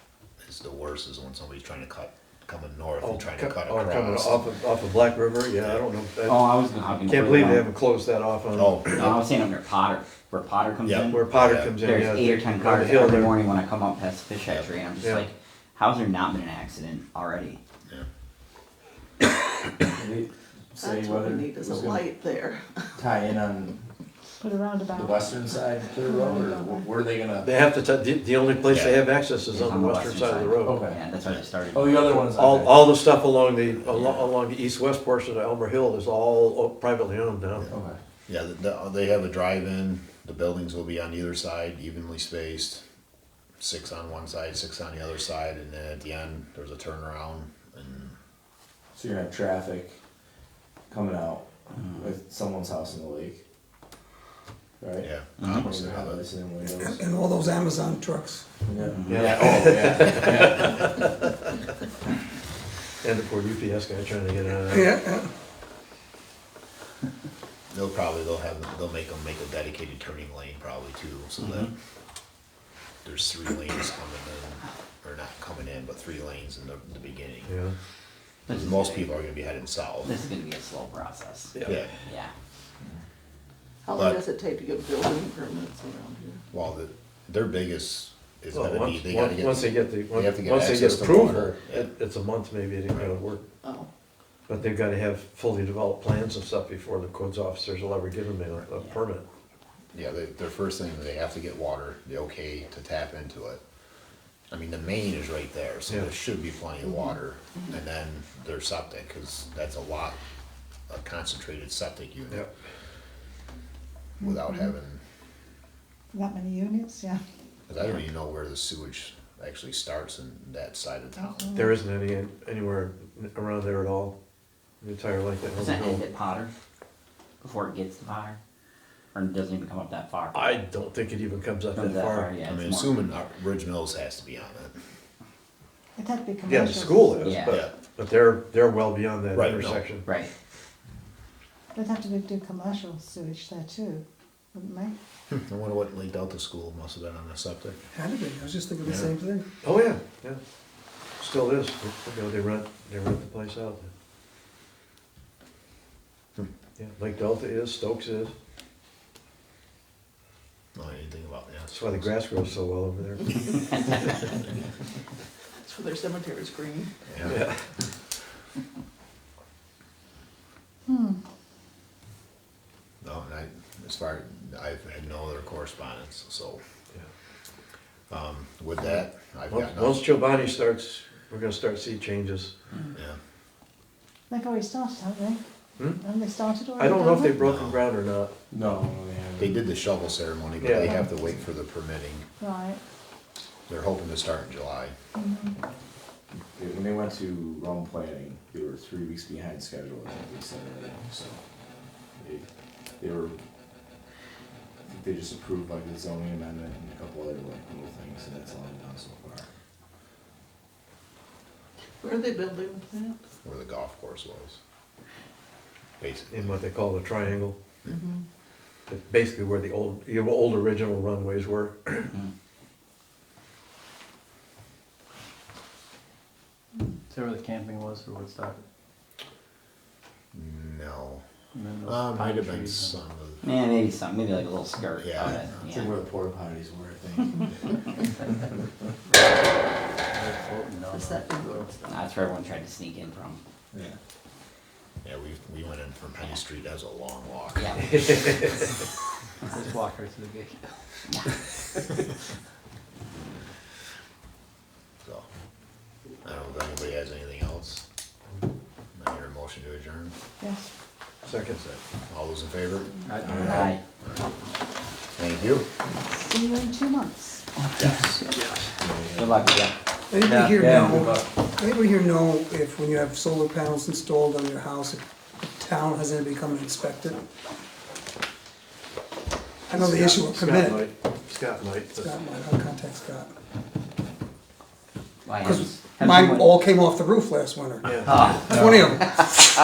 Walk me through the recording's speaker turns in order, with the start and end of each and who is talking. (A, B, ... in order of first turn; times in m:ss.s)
0:00.4-0:04.4 A
0:03.0-0:06.4 B
0:05.6-0:05.8 A
0:06.3-0:07.7 C
0:07.0-0:09.0 B
0:08.5-0:09.2 A
0:09.0-0:11.2 C
0:10.8-0:11.8 A
0:11.1-0:13.4 B
0:11.8-0:17.6 C
0:20.0-0:22.1 D
0:21.0-0:22.4 E
0:23.0-0:23.8 D
0:24.4-0:25.3 F
0:25.0-0:27.5 D
0:26.0-0:26.8 F
0:27.4-0:30.8 B
0:28.7-0:29.0 A
0:29.5-0:32.1 C
0:30.6-0:31.0 D
0:31.7-0:32.9 D
0:32.1-0:37.7 B
0:33.8-0:34.3 A
0:37.7-0:38.0 D
0:38.3-0:42.8 A
0:43.6-0:48.2 A
0:48.9-0:50.0 D
0:50.9-0:53.4 D
0:54.8-0:57.0 D
0:55.0-0:56.2 A
0:55.4-0:55.7 C
0:56.9-0:58.5 G
0:58.7-1:00.8 D
0:58.9-0:59.2 C
0:59.1-1:01.3 B
1:03.0-1:05.0 B
1:04.7-1:05.3 G
1:07.7-1:11.7 A
1:11.4-1:11.7 C
1:13.0-1:17.5 A
1:17.5-1:17.7 B
1:18.5-1:19.1 C
1:18.5-1:20.2 A
1:20.0-1:22.3 C
1:21.6-1:21.9 A
1:23.9-1:24.2 A
1:24.8-1:25.1 E
1:26.5-1:31.9 A
1:28.5-1:33.4 B
1:32.9-1:33.2 A
1:34.5-1:39.3 B
1:39.9-1:43.6 A
1:44.5-1:50.2 A
1:50.9-1:52.5 A
1:54.2-1:54.7 F
1:54.2-1:55.0 A
1:56.1-1:57.2 F
1:57.7-2:01.6 A
2:01.4-2:01.7 F
2:01.6-2:04.1 B
2:04.8-2:06.0 B
2:05.6-2:06.5 C
2:07.4-2:08.4 C
2:09.1-2:10.4 C
2:10.3-2:12.3 B
2:11.8-2:13.0 C
2:12.4-2:14.8 A
2:16.0-2:17.4 F
2:16.5-2:20.0 B
2:17.2-2:17.6 C
2:19.3-2:19.9 A
2:20.1-2:20.3 C
2:21.8-2:25.0 F
2:25.3-2:27.8 A
2:27.9-2:29.5 G
2:29.6-2:30.4 B
2:31.2-2:33.9 B
2:36.8-2:38.3 B
2:40.8-2:42.1 A
2:41.7-2:43.9 B
2:47.1-2:47.4 A
2:47.2-2:47.6 B
2:50.9-2:51.2 F
2:53.0-2:56.6 A
2:58.1-3:00.0 A
2:59.5-3:02.6 B
3:04.3-3:05.4 F
3:06.0-3:07.4 F
3:06.8-3:08.3 B
3:07.4-3:07.8 A
3:08.5-3:09.6 D
3:09.4-3:12.3 A
3:10.6-3:11.0 B
3:12.4-3:12.8 F
3:13.7-3:14.9 A
3:15.2-3:15.5 F
3:16.6-3:21.4 D
3:22.2-3:22.4 D
3:23.0-3:23.4 D
3:24.9-3:29.5 D
3:32.3-3:33.1 E
3:33.4-3:34.6 A
3:36.0-3:36.6 A
3:36.3-3:37.6 B
3:37.9-3:38.2 E
3:38.9-3:42.1 B
3:47.1-3:48.6 H
3:50.3-3:51.2 A
3:51.5-3:53.0 H
3:51.8-3:53.5 A
3:53.4-3:55.9 C
3:55.0-3:55.5 A
3:55.6-3:57.4 D
4:00.1-4:01.7 H
4:01.4-4:01.8 E
4:01.9-4:03.4 C
4:05.0-4:08.1 A
4:07.6-4:08.0 C
4:09.4-4:10.7 H
4:16.2-4:17.8 A
4:19.0-4:20.2 A
4:20.4-4:20.7 F
4:21.3-4:21.6 B
4:21.6-4:22.9 A
4:23.1-4:23.7 H
4:23.2-4:23.6 D
4:23.5-4:23.8 C
4:25.2-4:25.6 A
4:26.0-4:27.4 F
4:27.8-4:28.2 A
4:28.8-4:29.6 D
4:29.2-4:29.7 C
4:30.1-4:37.2 G
4:30.2-4:30.6 B
4:30.6-4:31.3 D
4:39.7-4:40.9 G
4:39.8-4:42.2 B
4:42.0-4:43.3 G
4:45.2-4:46.6 C
4:45.4-4:48.0 G
4:47.8-4:48.5 B
4:48.1-4:49.1 C
4:48.5-4:49.2 G